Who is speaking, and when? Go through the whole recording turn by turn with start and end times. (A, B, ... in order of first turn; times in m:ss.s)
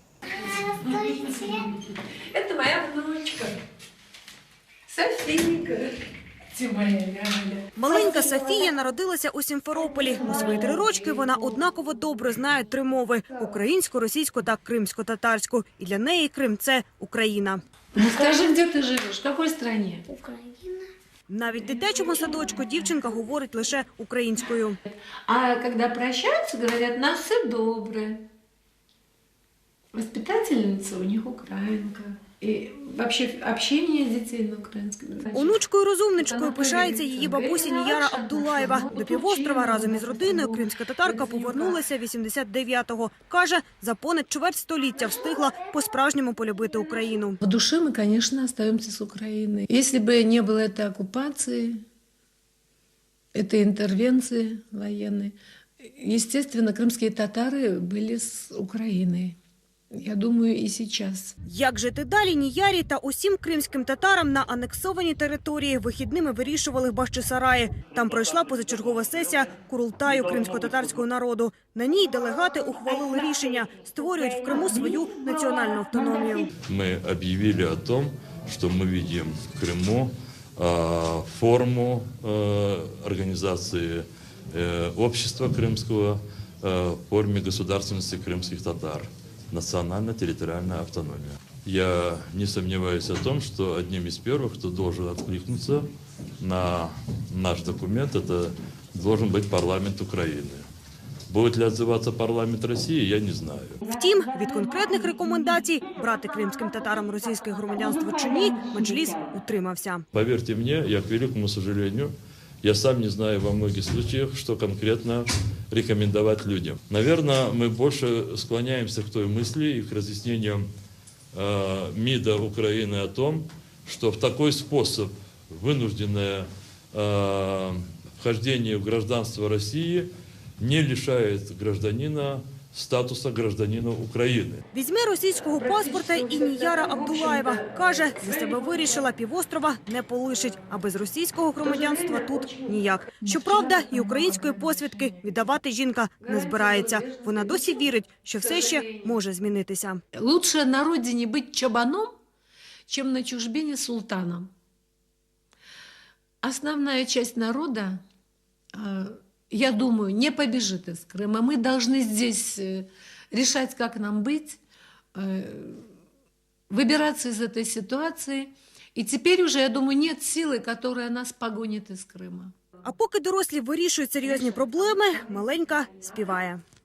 0:00.4-0:01.7 A
0:00.9-0:01.5 B
0:02.3-0:03.6 B
0:04.9-0:05.9 B
0:06.5-0:07.7 B
0:07.8-0:17.6 C
0:18.0-0:20.1 B
0:20.1-0:20.9 A
0:21.3-0:24.8 C
0:21.8-0:22.8 B
0:25.3-0:28.2 B
0:29.9-0:35.6 B
0:35.3-0:47.4 C
0:36.2-0:41.8 B
0:47.4-0:51.8 B
0:53.3-0:59.4 B
0:59.9-1:01.3 B
1:01.5-1:16.5 C
1:16.7-1:35.9 D
1:36.4-1:40.6 D
1:41.3-1:43.8 D
1:44.0-1:50.0 C
1:50.1-1:52.1 D
1:52.6-2:00.6 D
2:01.3-2:10.1 D
2:10.6-2:14.6 D
2:14.8-2:30.0 C
2:15.6-2:19.0 B
2:21.6-2:22.7 B
2:23.4-2:25.1 B
2:26.2-2:27.8 B
2:28.4-2:29.1 B
2:30.2-2:32.1 B
2:32.9-2:34.5 B
2:36.4-2:38.0 B
2:38.7-2:44.6 B
2:45.2-2:45.8 B
2:46.7-2:52.5 B
2:52.9-2:56.6 C